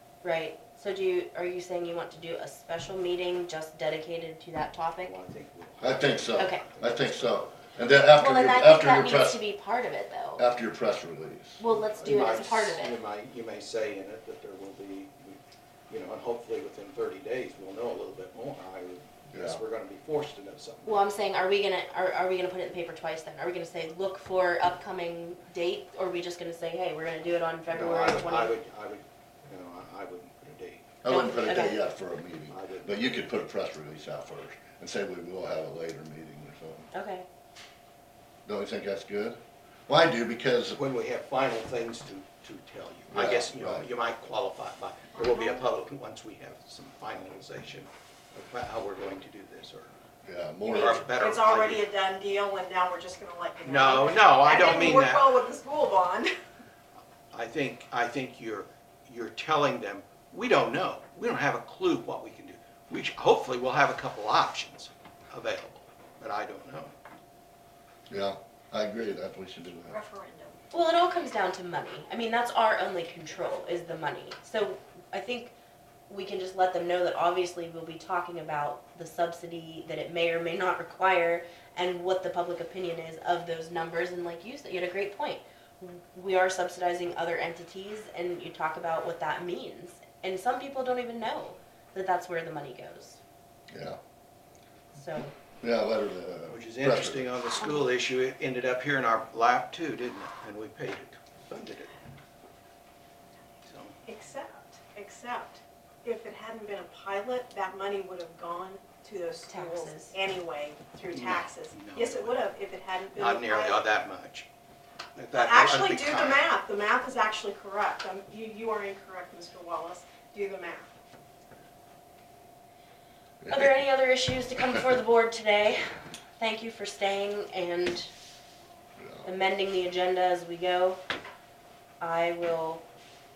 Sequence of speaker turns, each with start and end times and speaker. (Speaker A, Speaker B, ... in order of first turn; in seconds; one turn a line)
Speaker A: 0.2-5.2
Speaker B: 5.0-7.7
Speaker C: 5.8-9.4
Speaker A: 6.3-6.7
Speaker A: 8.2-10.4
Speaker C: 10.4-11.6
Speaker A: 11.6-13.0
Speaker B: 11.9-21.1
Speaker C: 19.3-19.6
Speaker A: 20.8-28.5
Speaker B: 27.7-30.9
Speaker C: 31.0-36.9
Speaker A: 31.1-31.8
Speaker B: 32.5-33.4
Speaker A: 36.9-37.3
Speaker C: 38.5-40.8
Speaker B: 40.8-49.9
Speaker C: 43.1-43.9
Speaker D: 45.2-45.6
Speaker C: 50.2-51.0
Speaker B: 50.6-51.9
Speaker D: 50.6-56.3
Speaker B: 53.6-55.4
Speaker B: 57.3-66.9
Speaker C: 68.1-70.0
Speaker D: 69.9-70.5
Speaker A: 70.7-75.5
Speaker A: 76.1-93.2
Speaker C: 93.7-94.0
Speaker A: 94.9-95.3
Speaker C: 95.6-97.4
Speaker B: 96.5-102.0
Speaker B: 103.7-103.9
Speaker D: 104.0-113.9
Speaker A: 109.5-110.2
Speaker B: 111.1-112.5
Speaker B: 113.1-114.5
Speaker B: 115.2-116.5
Speaker D: 115.3-120.9
Speaker C: 123.4-123.8
Speaker A: 123.5-128.1
Speaker C: 129.0-129.3
Speaker A: 129.2-131.0
Speaker A: 132.0-132.8